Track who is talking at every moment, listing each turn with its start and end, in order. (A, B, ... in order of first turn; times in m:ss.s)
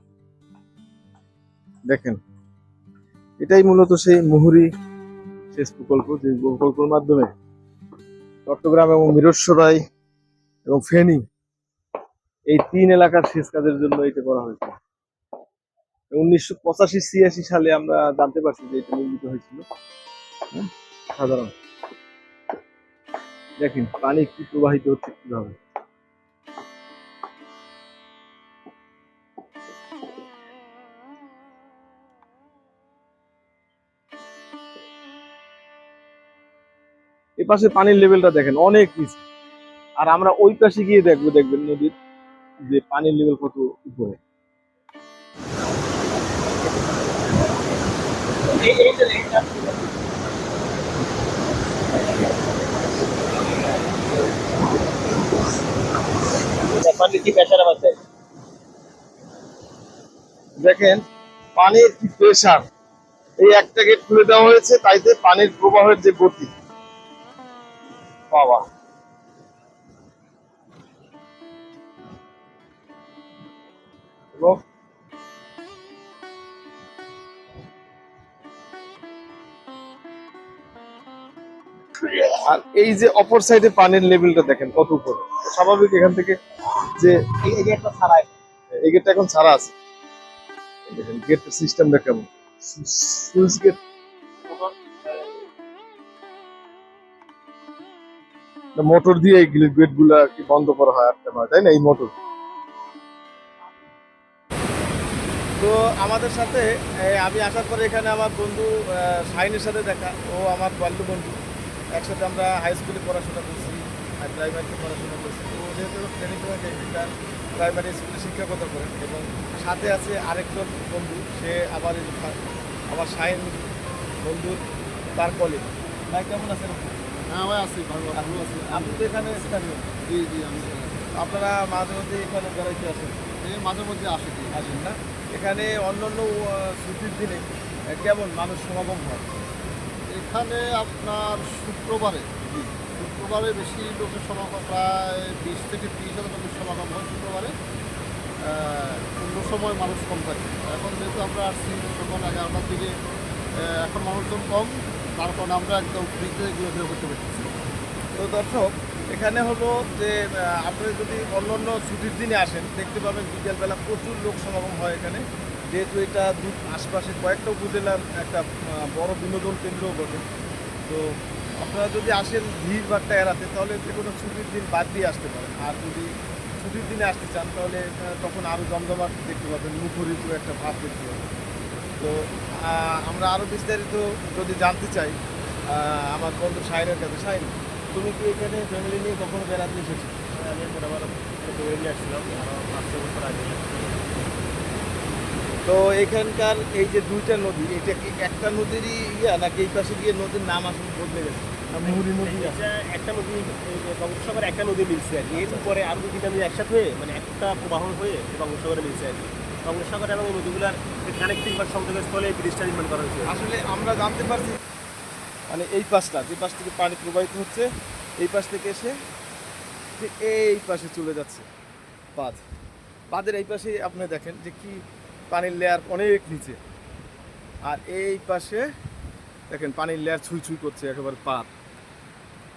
0:01.9-0:02.2 A
0:03.4-0:04.7 A
0:05.5-0:07.3 A
0:08.5-0:09.8 A
0:10.7-0:11.2 A
0:12.5-0:14.8 A
0:16.1-0:19.6 A
0:20.5-0:21.5 A
0:23.6-0:25.6 A
0:37.4-0:39.2 A
0:40.0-0:41.9 A
0:42.7-0:44.2 A
0:48.6-0:49.7 A
0:56.5-0:58.0 A
1:00.6-1:01.0 A
1:01.6-1:02.6 A
1:03.4-1:06.5 A
1:08.3-1:08.6 A
1:22.0-1:28.2 A
1:28.8-1:29.7 A
1:30.9-1:33.8 A
1:38.8-1:42.1 A
1:45.6-1:51.4 A
1:52.0-2:02.4 A
2:02.9-2:03.7 A
2:04.2-2:04.6 A
2:05.2-2:07.0 A
2:07.3-2:11.1 B
2:08.1-2:09.9 A
2:11.1-2:13.2 A
2:13.4-2:14.7 B
2:14.5-2:19.4 A
2:20.1-2:22.3 B
2:22.8-2:27.5 B
2:28.4-2:32.9 B
2:33.6-2:37.5 B
2:38.1-2:50.2 A
2:51.6-3:01.3 A
3:02.0-3:05.2 A
3:05.7-3:10.2 A
3:10.3-3:14.4 C
3:15.6-3:22.6 A
3:21.8-3:33.3 C
3:25.4-3:25.8 A
3:33.2-3:34.6 A
3:35.5-3:37.7 A
3:38.2-3:38.9 A
3:40.0-3:41.5 A
3:42.1-3:42.4 A
3:43.1-3:46.6 A
3:47.7-3:48.6 A
3:49.5-3:51.5 A